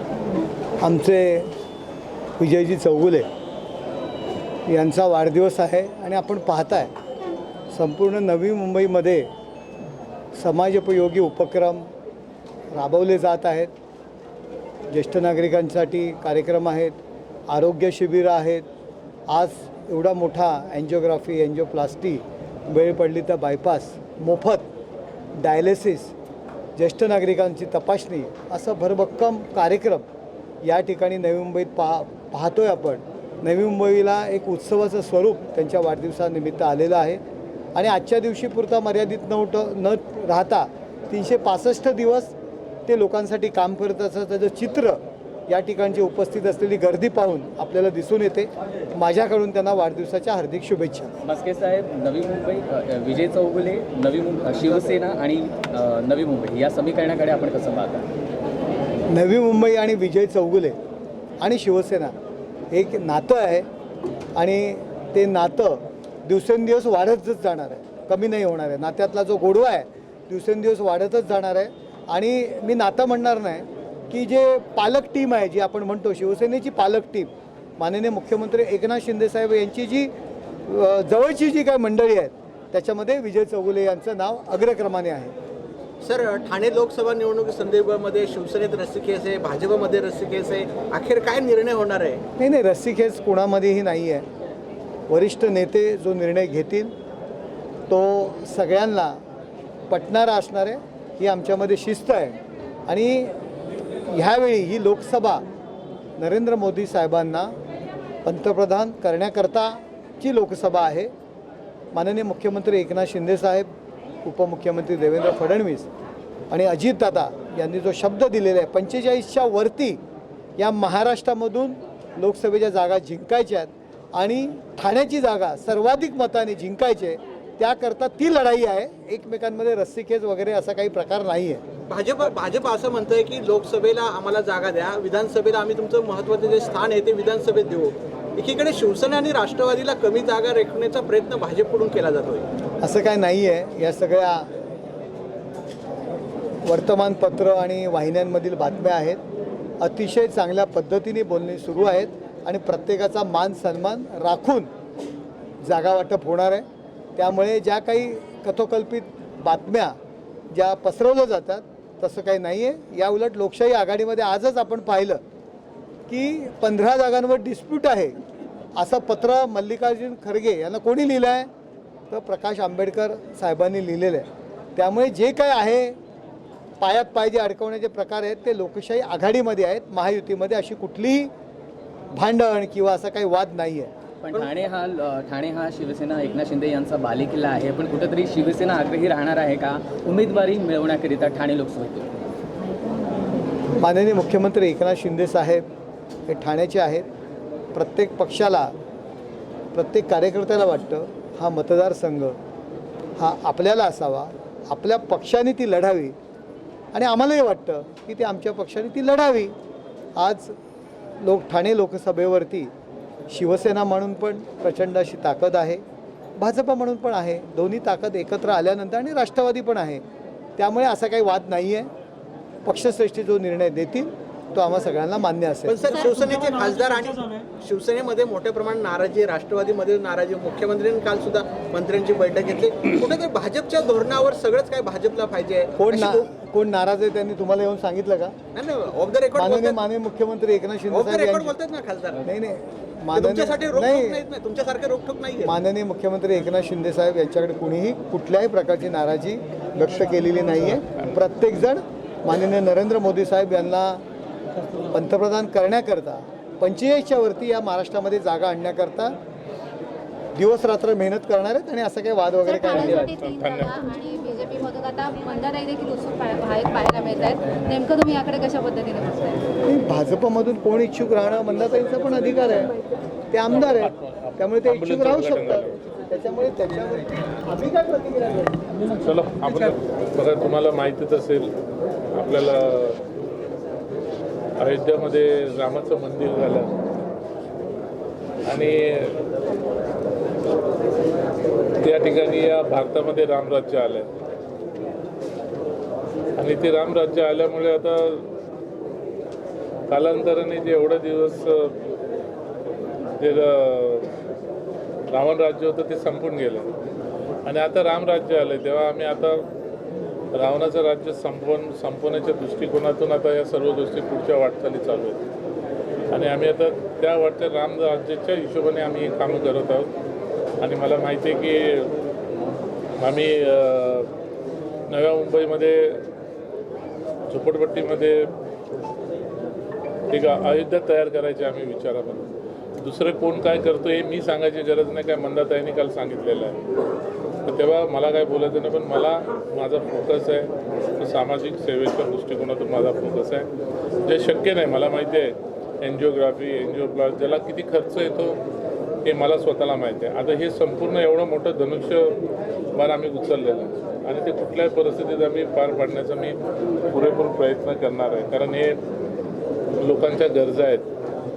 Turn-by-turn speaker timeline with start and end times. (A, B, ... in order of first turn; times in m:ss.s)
0:00.8-0:01.5 A
0:02.4-0:03.3 A
0:04.7-0:06.9 A
0:07.7-0:09.3 A
0:10.4-0:11.9 A
0:12.7-0:13.7 A
0:14.9-0:18.7 A
0:19.3-0:24.7 A
0:25.4-0:26.1 A
0:26.8-0:30.1 A
0:30.6-0:37.2 A
0:37.8-0:42.3 A
0:42.9-0:51.1 A
0:51.2-0:58.1 B
0:59.1-1:00.8 A
1:01.4-1:02.2 A
1:02.7-1:03.7 A
1:04.4-1:20.1 A
1:20.7-1:25.3 A
1:26.0-1:32.2 C
1:32.4-1:34.2 A
1:35.1-1:36.9 A
1:37.9-1:39.2 A
1:39.9-1:42.4 A
1:42.9-1:43.3 A
1:44.1-1:45.4 A
1:46.2-1:47.6 A
1:48.2-1:51.1 A
1:51.9-1:53.7 A
1:54.2-1:55.9 A
1:56.5-2:00.0 A
2:00.6-2:11.6 A
2:11.9-2:22.5 C
2:22.8-2:24.5 A
2:26.7-2:29.2 A
2:29.8-2:34.7 A
2:35.6-2:40.0 A
2:40.5-2:45.2 A
2:46.1-2:48.2 A
2:48.8-2:51.5 A
2:52.1-2:56.0 A
2:56.8-3:01.3 A
3:02.1-3:03.9 A
3:04.2-3:12.1 B
3:13.8-3:15.6 A
3:16.3-3:17.1 A
3:17.7-3:18.7 A
3:19.7-3:22.4 A
3:23.2-3:26.2 A
3:26.9-3:29.5 A
3:30.2-3:30.5 A
3:31.2-3:32.7 A
3:33.3-3:35.8 A
3:36.4-3:40.0 A
3:40.6-3:41.9 A
3:42.6-3:45.9 A
3:45.7-3:56.3 C
3:55.8-3:58.4 A
3:58.5-3:59.8 C
3:59.4-4:01.6 A
4:00.9-4:02.2 C
4:02.2-4:04.2 A
4:03.1-4:05.5 C
4:05.4-4:14.0 A
4:14.9-4:19.2 A
4:20.4-4:23.0 A
4:22.5-4:29.5 D
4:23.0-4:23.8 E
4:29.6-4:32.7 A
4:33.3-4:38.7 A
4:33.6-4:35.8 E
4:39.0-4:41.5 E
4:42.1-4:43.0 E
4:44.6-4:46.7 E
4:48.5-4:49.2 E
4:51.8-4:54.1 E
4:56.4-4:58.3 E
4:59.9-5:01.8 E
5:03.2-5:04.1 E
5:05.1-5:06.7 E
5:07.4-5:09.5 E
5:10.3-5:15.2 E
5:16.1-5:19.9 E
5:20.6-5:21.9 E
5:23.0-5:24.1 E
5:24.9-5:26.0 E
5:27.3-5:28.3 E
5:30.1-5:32.3 E
5:32.8-5:36.6 E
5:37.4-5:43.5 E
5:44.0-5:48.4 E
5:49.0-5:52.2 E
5:52.8-5:56.4 E
5:56.9-5:58.8 E
5:59.8-6:00.9 E